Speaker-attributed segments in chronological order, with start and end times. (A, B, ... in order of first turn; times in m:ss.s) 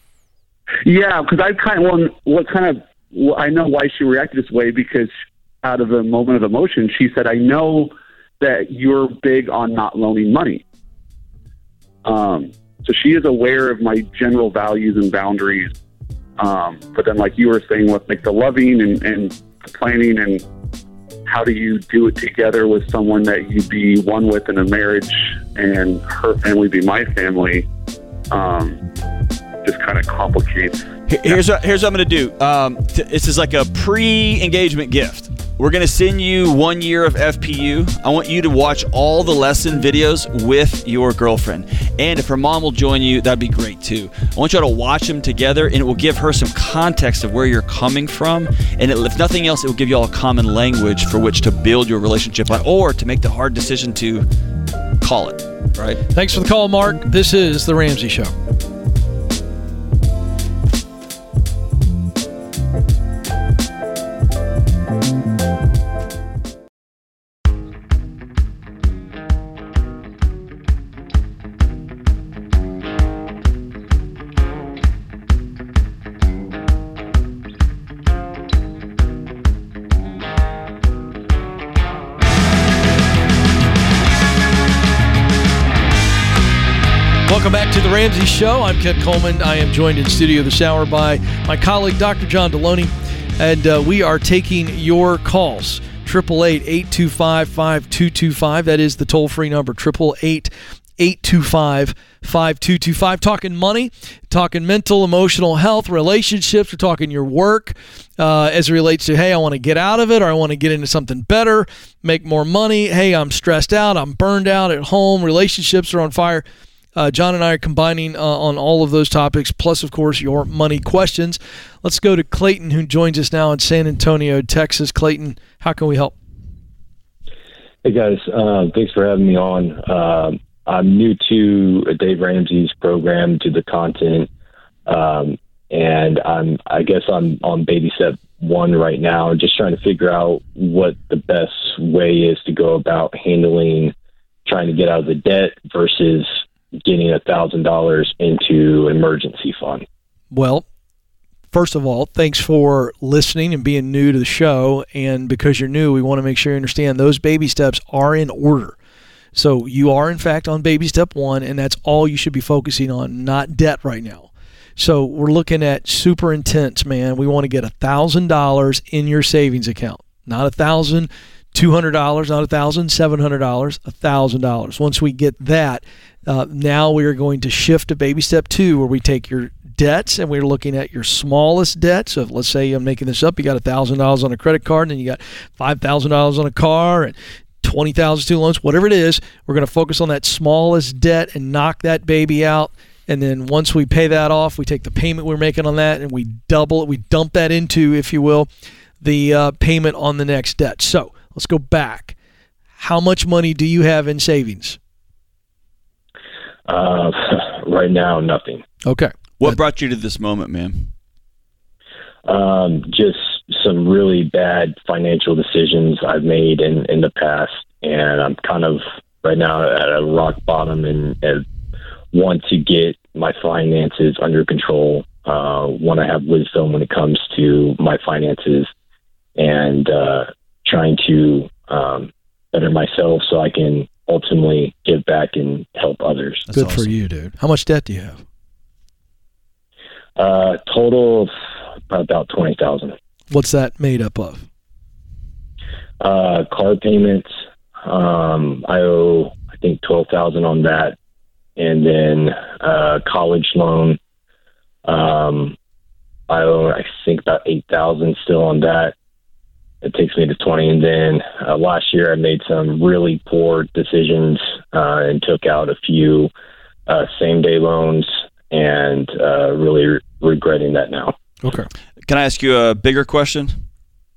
0:00.9-0:05.1 A
0:05.6-0:10.6 A
0:12.0-0:15.7 A
0:16.4-0:20.4 A
0:21.3-0:27.6 A
0:28.3-0:28.8 A
0:29.6-0:31.4 A
0:31.1-0:54.3 B
0:55.0-0:56.0 B
0:56.2-0:58.3 C
1:27.3-1:56.4 C
1:57.0-2:06.2 C
2:07.8-2:14.3 D
2:14.9-2:23.9 D
2:24.5-2:26.3 D
2:26.8-2:29.8 D
2:30.3-2:30.6 C
2:31.5-2:38.8 C
2:39.4-3:18.5 C
3:19.0-3:22.2 C
3:22.8-3:24.8 C
3:26.7-3:28.6 D
3:28.8-3:29.6 C
3:29.4-3:30.9 B
3:32.3-3:41.4 D
3:42.1-3:48.7 D
3:49.4-3:56.5 D
3:56.5-3:56.9 B
3:56.5-3:58.2 C
4:00.2-4:01.3 D
4:01.9-4:03.0 D
4:03.3-4:04.4 C
4:06.0-4:07.3 D
4:07.8-4:11.0 D
4:11.6-4:14.0 D
4:14.9-4:15.6 D
4:16.3-4:19.0 D
4:19.8-4:26.3 D
4:26.9-4:31.2 D
4:31.4-4:31.7 C
4:32.1-4:33.6 B